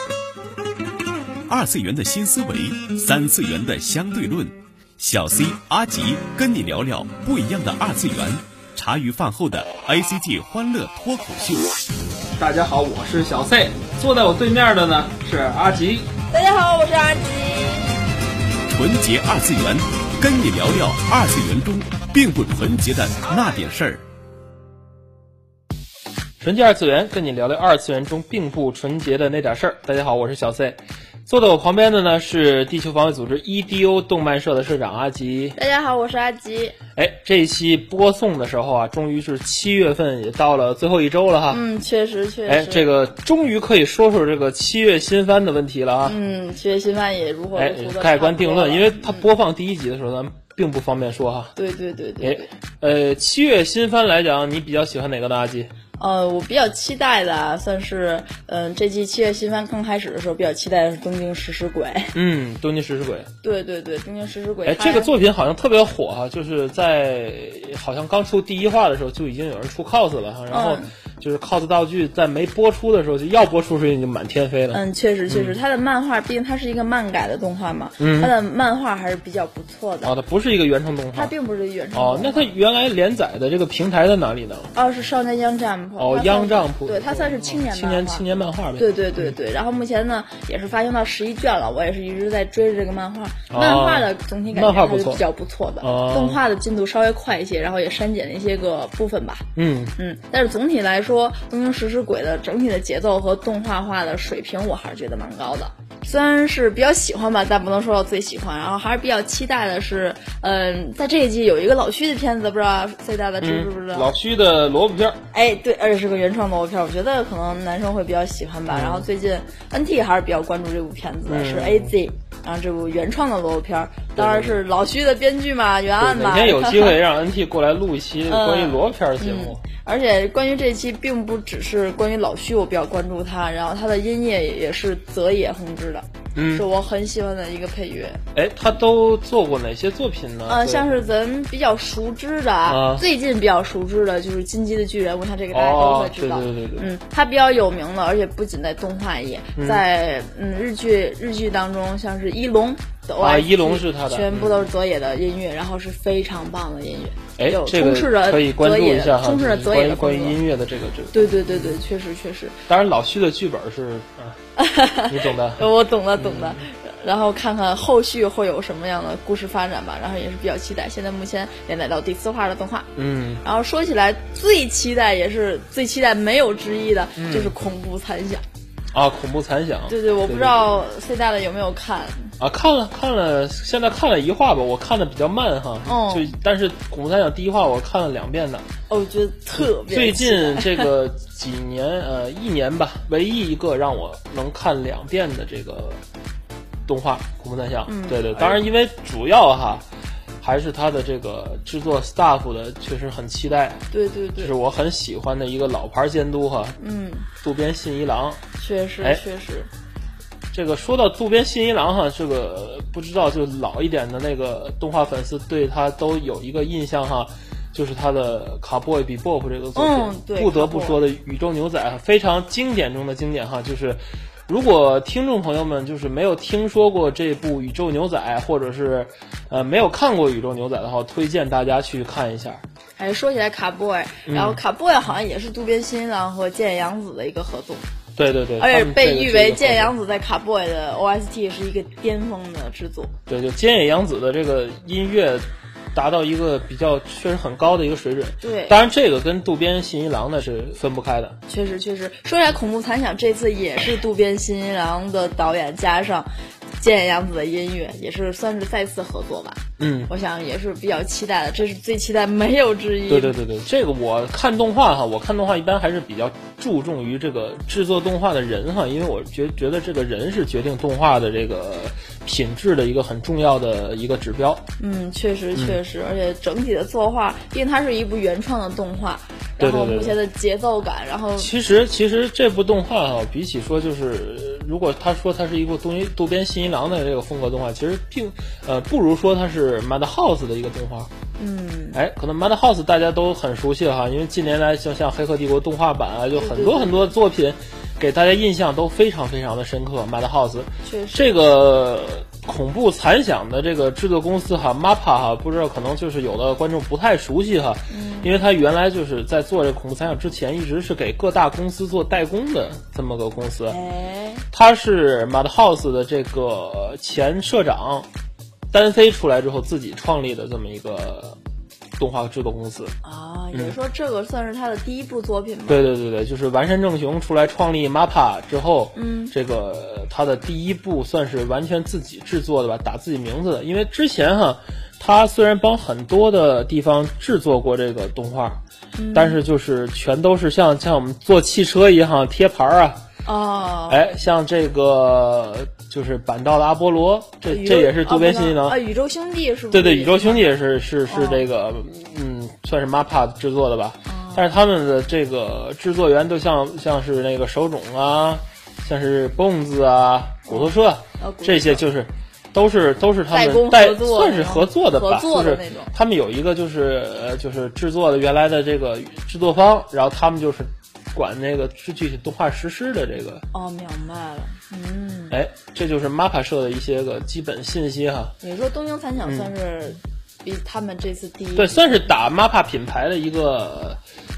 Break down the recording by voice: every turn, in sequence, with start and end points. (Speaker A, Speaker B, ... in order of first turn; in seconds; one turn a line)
Speaker A: 1.5-11.9
Speaker B: 12.4-16.1
Speaker C: 16.3-17.9
Speaker A: 18.7-24.0
Speaker B: 26.4-35.6
Speaker C: 35.5-36.8
Speaker B: 37.0-41.6
Speaker C: 41.5-42.9
Speaker B: 42.5-46.2
Speaker C: 46.0-49.3
Speaker B: 47.5-51.5
Speaker C: 51.5-52.5
Speaker B: 52.2-55.7
Speaker C: 56.0-62.1
Speaker B: 62.1-63.3
Speaker C: 63.4-65.1
Speaker B: 64.7-75.6
Speaker C: 70.5-70.9
Speaker C: 74.7-80.1
Speaker B: 78.0-78.3
Speaker B: 80.0-81.3
Speaker C: 81.1-82.5
Speaker B: 81.9-84.7
Speaker C: 84.7-88.2
Speaker B: 86.0-89.3
Speaker C: 88.8-99.5
Speaker B: 93.5-95.2
Speaker B: 95.8-96.4
Speaker B: 99.5-99.9
Speaker C: 100.0-114.1
Speaker B: 113.4-115.2
Speaker C: 115.3-127.0
Speaker B: 118.7-119.1
Speaker B: 121.2-121.9
Speaker B: 124.2-124.6
Speaker B: 126.0-129.6
Speaker C: 128.3-138.2
Speaker B: 136.3-136.7
Speaker B: 138.3-141.1
Speaker C: 140.5-160.4
Speaker B: 142.7-143.0
Speaker B: 145.5-146.9
Speaker B: 149.6-149.8
Speaker B: 153.2-154.7
Speaker B: 157.4-161.8
Speaker C: 161.1-162.6
Speaker B: 162.7-164.4
Speaker C: 164.6-172.9
Speaker B: 165.1-166.6
Speaker B: 172.9-173.4
Speaker C: 173.4-178.4
Speaker B: 177.2-177.5
Speaker B: 178.9-180.7
Speaker C: 179.9-182.3
Speaker B: 182.4-188.7
Speaker C: 185.8-186.3
Speaker C: 188.9-190.9
Speaker B: 189.6-196.0
Speaker B: 196.9-199.8
Speaker C: 197.9-198.6
Speaker B: 200.4-203.8
Speaker C: 203.9-204.5
Speaker B: 204.4-206.8
Speaker C: 206.8-207.3
Speaker B: 207.4-208.4
Speaker C: 208.6-209.7
Speaker B: 210.5-232.6
Speaker C: 219.8-221.0
Speaker C: 233.0-237.8
Speaker B: 234.2-234.6
Speaker B: 238.2-239.9
Speaker C: 238.6-243.1
Speaker B: 243.3-251.4
Speaker C: 248.4-248.8
Speaker C: 251.5-263.4
Speaker B: 259.8-260.1
Speaker B: 263.1-274.6
Speaker C: 274.8-281.5
Speaker B: 279.6-280.2
Speaker B: 281.4-291.1
Speaker C: 291.4-292.0
Speaker B: 291.9-313.8
Speaker C: 296.3-297.1
Speaker C: 300.8-301.3
Speaker C: 307.9-308.4
Speaker C: 313.7-314.4
Speaker B: 314.5-318.1
Speaker B: 318.7-321.4
Speaker B: 322.0-322.9
Speaker C: 323.0-325.8
Speaker B: 325.7-338.6
Speaker C: 328.9-329.3
Speaker C: 338.9-339.4
Speaker B: 339.1-343.0
Speaker C: 343.2-344.0
Speaker B: 343.9-348.8
Speaker C: 347.4-350.5
Speaker B: 349.7-373.4
Speaker C: 351.1-351.4
Speaker C: 354.1-354.5
Speaker C: 360.5-361.8
Speaker C: 363.3-365.9
Speaker C: 373.5-375.4
Speaker B: 375.3-378.3
Speaker C: 378.4-382.1
Speaker B: 379.2-379.5
Speaker B: 381.6-384.0